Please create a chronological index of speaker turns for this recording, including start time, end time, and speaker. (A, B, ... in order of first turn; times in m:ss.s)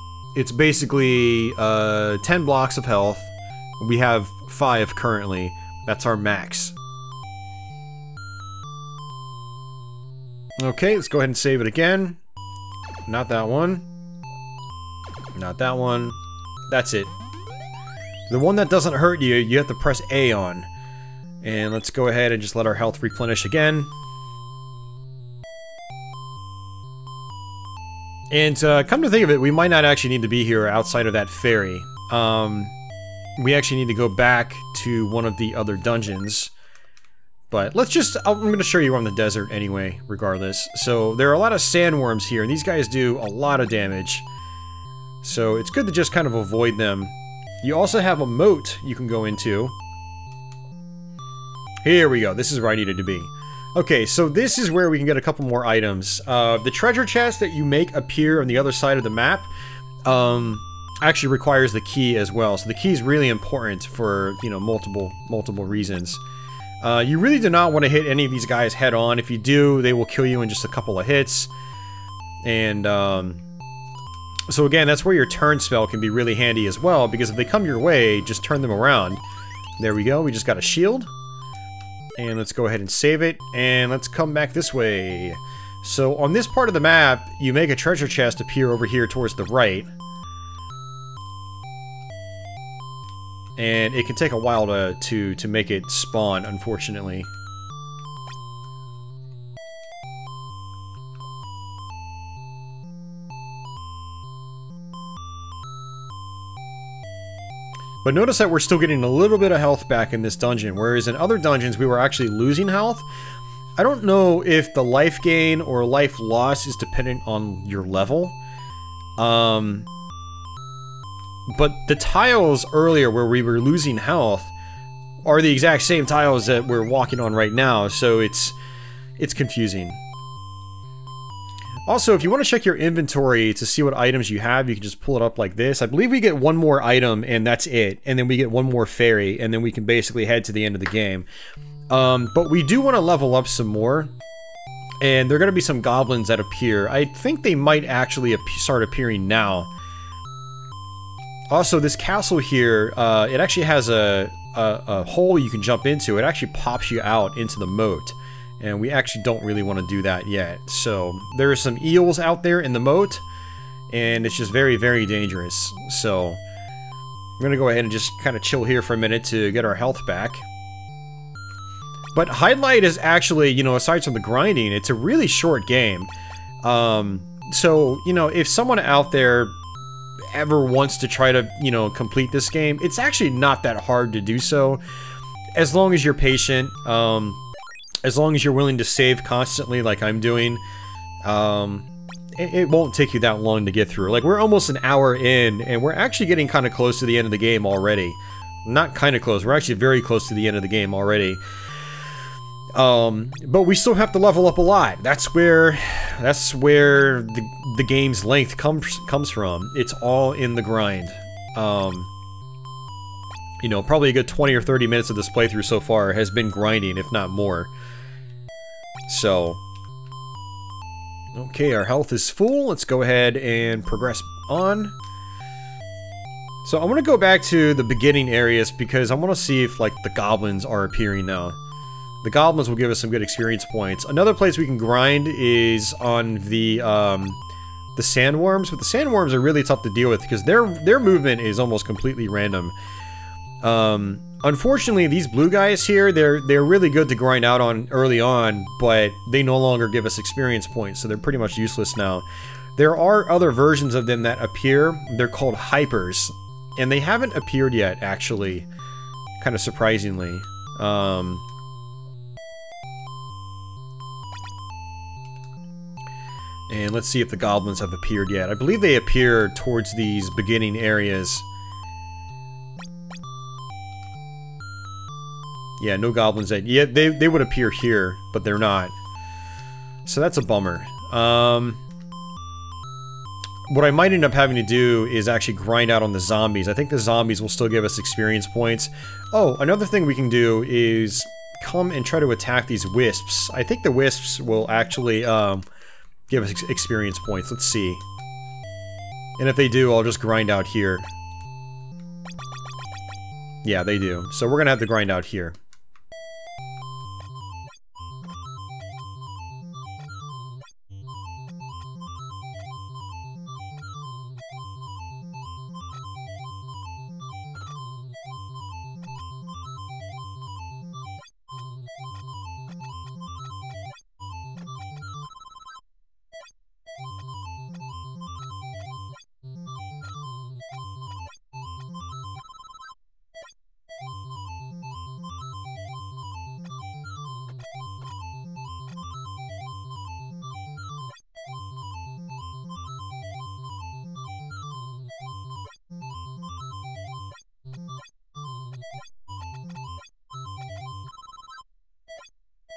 0:00.4-0:06.8 A
0:10.6-0:12.2 A
0:13.1-0:13.9 A
0:15.4-0:17.1 A
0:18.3-0:20.7 A
0:21.4-0:23.9 A
0:28.3-0:32.8 A
0:33.4-0:36.5 A
0:37.5-0:44.3 A
0:45.2-0:49.8 A
0:51.8-0:59.5 A
1:00.1-1:06.2 A
1:06.8-1:11.5 A
1:12.4-1:13.4 A
1:14.5-1:19.2 A
1:19.8-1:21.1 A
1:22.2-1:29.9 A
1:33.6-1:37.3 A
1:48.0-1:53.1 A
1:53.8-1:58.4 A
1:59.2-1:59.9 A
2:01.5-2:04.5 A
2:05.2-2:08.6 A
2:09.2-2:10.0 A
2:11.9-2:21.3 A
2:21.9-2:24.1 A
2:25.0-2:29.7 A
2:31.5-2:43.2 A
2:43.9-2:46.4 A
2:47.4-2:50.5 A
2:52.2-2:56.1 A
2:56.6-2:59.6 A
3:00.3-3:04.8 A
3:05.6-3:07.4 A
3:08.0-3:10.6 A
3:11.2-3:21.4 A
3:22.8-3:32.1 A
3:33.6-3:37.7 A
3:39.1-3:39.6 A
3:41.4-3:45.0 A
3:46.6-3:51.6 A
3:52.2-3:57.4 A
3:58.0-4:02.8 A
4:03.6-4:18.7 A
4:19.4-4:21.4 A
4:26.7-4:31.5 A
4:35.8-4:38.9 A
4:40.1-4:41.8 A
4:43.7-4:55.6 A
4:56.3-4:58.0 A
4:59.4-5:01.1 A
5:03.6-5:05.6 A